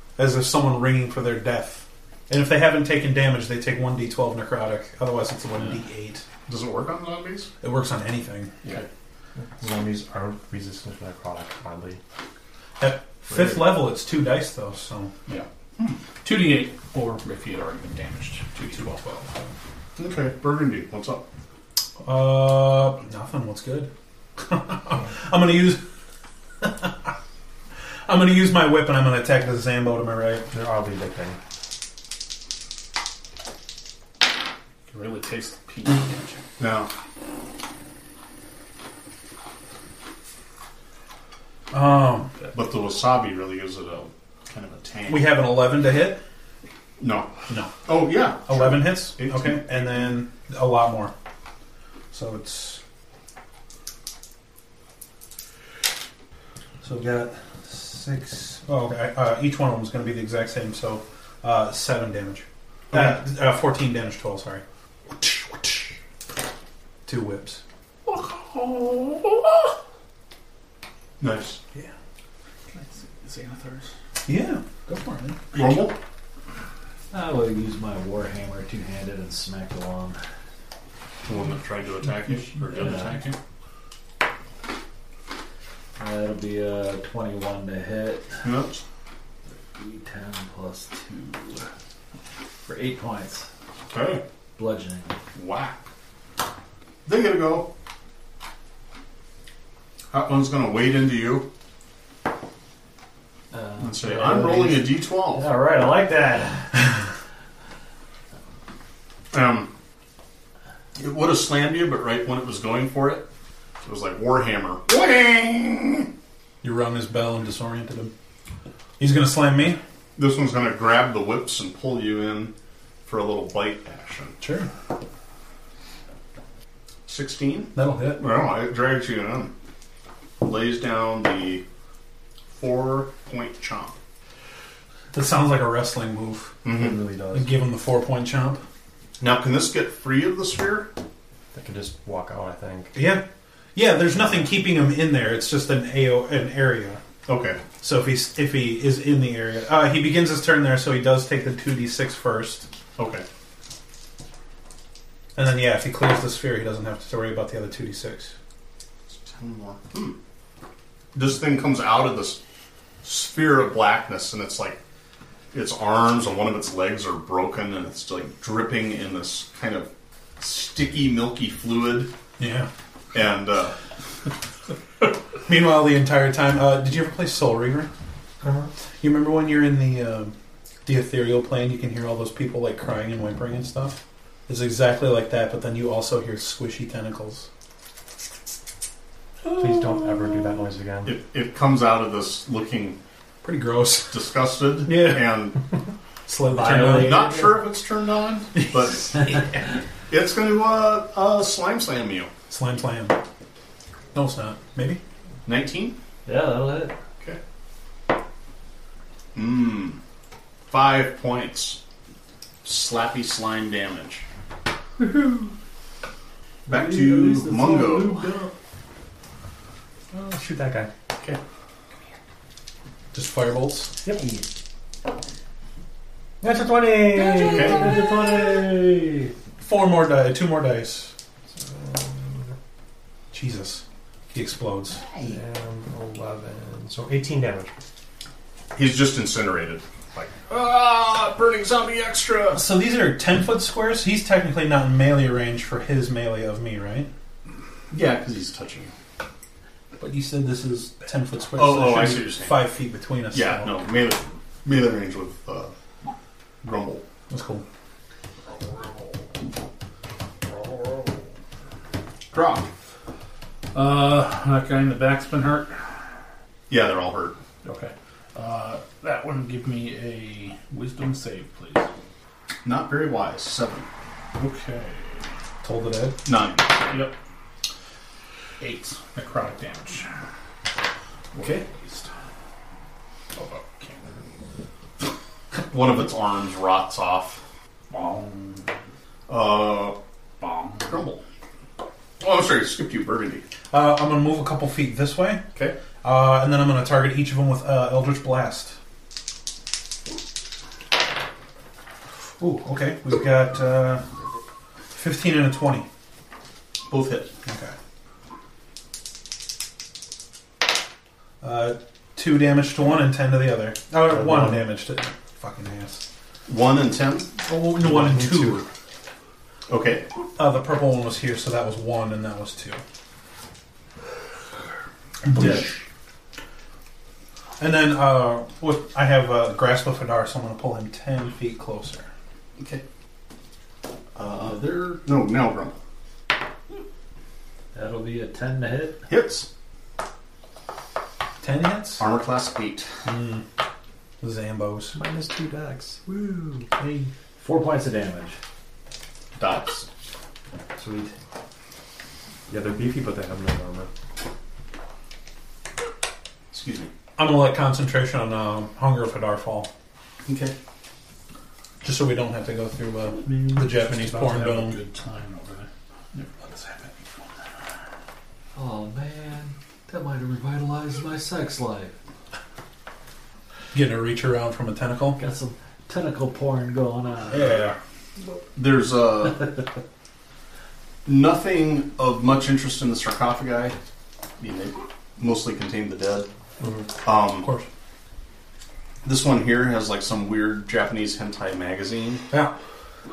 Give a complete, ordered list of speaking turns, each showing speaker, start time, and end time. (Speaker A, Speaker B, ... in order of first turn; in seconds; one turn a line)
Speaker A: 0.2-6.2
Speaker B: 6.5-7.5
Speaker A: 7.6-8.6
Speaker C: 9.6-12.0
Speaker A: 12.8-15.1
Speaker D: 16.2-19.4
Speaker A: 18.7-19.1
Speaker B: 20.0-21.2
Speaker A: 22.0-25.8
Speaker A: 26.6-27.1
Speaker A: 28.1-30.5
Speaker C: 30.5-31.4
Speaker D: 34.9-36.4
Speaker B: 36.6-36.9
Speaker A: 41.7-42.3
Speaker B: 42.5-45.4
Speaker A: 45.1-46.2
Speaker B: 47.0-47.3
Speaker A: 47.5-47.9
Speaker B: 47.9-49.7
Speaker A: 48.4-51.1
Speaker A: 52.1-52.8
Speaker A: 56.8-64.6
Speaker A: 67.1-67.6
Speaker D: 68.1-69.8
Speaker B: 71.2-71.6
Speaker D: 72.7-73.9
Speaker A: 74.3-75.5
Speaker B: 75.5-76.0
Speaker E: 77.1-80.2
Speaker B: 81.2-83.3
Speaker D: 82.6-83.4
Speaker E: 82.8-83.1
Speaker E: 86.0-88.4
Speaker B: 88.4-88.8
Speaker E: 89.7-91.7
Speaker E: 92.7-93.5
Speaker B: 93.9-94.2
Speaker E: 94.6-95.2
Speaker B: 95.3-95.8
Speaker B: 97.1-97.7
Speaker B: 100.1-101.5
Speaker E: 103.5-104.9
Speaker B: 103.8-105.5
Speaker C: 105.4-106.7
Speaker E: 106.2-106.5
Speaker B: 109.3-109.7
Speaker B: 111.0-113.3
Speaker B: 113.8-116.1
Speaker A: 116.6-118.1
Speaker A: 119.0-119.8
Speaker B: 120.2-122.5
Speaker B: 123.0-124.4
Speaker A: 124.4-124.7
Speaker B: 127.1-129.5
Speaker A: 127.8-128.2
Speaker B: 130.4-131.6
Speaker B: 132.5-133.9
Speaker A: 135.1-136.6
Speaker B: 136.6-137.0
Speaker C: 136.7-137.5
Speaker A: 137.3-138.6
Speaker B: 139.2-140.9
Speaker C: 141.5-143.0
Speaker A: 142.9-147.0
Speaker B: 147.3-147.6
Speaker A: 147.8-152.7
Speaker B: 153.0-153.2
Speaker A: 155.4-158.3
Speaker B: 159.1-160.2
Speaker B: 161.1-162.4
Speaker B: 163.0-164.8
Speaker B: 165.5-172.1
Speaker A: 172.4-172.7
Speaker B: 173.1-173.8
Speaker A: 175.4-177.9
Speaker C: 178.4-178.7
Speaker A: 179.0-180.3
Speaker A: 180.8-187.5
Speaker A: 189.4-190.5
Speaker C: 189.5-191.2
Speaker B: 191.1-193.0
Speaker A: 193.4-194.2
Speaker B: 194.1-195.6
Speaker A: 194.8-195.6
Speaker A: 196.3-197.3
Speaker C: 196.6-197.5
Speaker B: 196.7-199.5
Speaker B: 200.1-202.3
Speaker A: 202.5-203.2
Speaker A: 204.1-205.0
Speaker B: 205.4-206.0
Speaker E: 206.3-206.9
Speaker B: 209.3-210.0
Speaker B: 210.7-211.8
Speaker B: 212.6-214.2
Speaker C: 215.0-215.4
Speaker B: 216.7-218.3
Speaker E: 216.7-218.5
Speaker C: 220.1-220.9
Speaker A: 223.1-223.9
Speaker C: 224.1-224.3
Speaker E: 224.1-224.4
Speaker C: 226.4-229.1
Speaker E: 227.3-229.1
Speaker B: 227.4-227.9
Speaker A: 229.6-231.1
Speaker C: 231.5-232.5
Speaker A: 233.3-235.0
Speaker C: 235.2-237.7
Speaker B: 238.7-242.7
Speaker A: 242.5-247.1
Speaker B: 247.9-248.9
Speaker A: 250.0-253.8
Speaker B: 251.6-252.6
Speaker B: 253.3-255.7
Speaker B: 256.6-257.0
Speaker A: 257.3-257.6
Speaker B: 262.3-262.7
Speaker D: 263.7-265.8
Speaker B: 266.7-267.4
Speaker D: 267.6-271.9
Speaker B: 272.6-273.9
Speaker D: 274.4-275.3
Speaker A: 275.6-276.2
Speaker B: 276.3-276.8
Speaker D: 276.8-277.2
Speaker D: 278.6-280.1
Speaker D: 281.3-282.1
Speaker B: 281.4-281.6
Speaker D: 283.4-284.1
Speaker B: 285.6-287.4
Speaker D: 287.9-288.7
Speaker B: 289.3-290.0
Speaker D: 290.4-291.0
Speaker B: 290.9-291.2
Speaker B: 292.2-293.4
Speaker A: 293.7-295.4
Speaker A: 296.0-298.8
Speaker A: 302.4-304.0
Speaker A: 304.9-305.9
Speaker B: 306.9-307.3
Speaker A: 307.4-307.7
Speaker A: 311.4-316.0
Speaker C: 314.1-314.7
Speaker B: 316.5-317.4
Speaker A: 317.4-318.6
Speaker C: 317.8-318.6
Speaker B: 319.7-320.1
Speaker A: 320.4-322.8
Speaker A: 325.3-325.7
Speaker A: 327.6-332.1
Speaker B: 334.1-335.8
Speaker E: 337.7-339.0
Speaker B: 339.1-339.5
Speaker A: 341.4-342.1
Speaker B: 342.0-342.9
Speaker A: 343.1-343.4
Speaker A: 344.2-345.0
Speaker C: 344.9-346.7
Speaker E: 346.8-348.4
Speaker B: 349.4-349.9
Speaker E: 350.8-351.1
Speaker C: 352.5-353.9
Speaker B: 356.5-356.9
Speaker A: 357.2-359.7
Speaker B: 360.3-360.6
Speaker A: 361.8-364.8
Speaker D: 363.2-367.4
Speaker E: 368.6-371.9
Speaker A: 373.7-375.2
Speaker E: 375.2-377.6
Speaker A: 377.3-377.8
Speaker B: 378.5-379.6
Speaker B: 381.1-383.8
Speaker B: 384.4-386.3
Speaker C: 386.6-386.9
Speaker B: 387.0-387.5
Speaker A: 387.4-387.7
Speaker B: 389.0-392.3
Speaker A: 392.3-392.6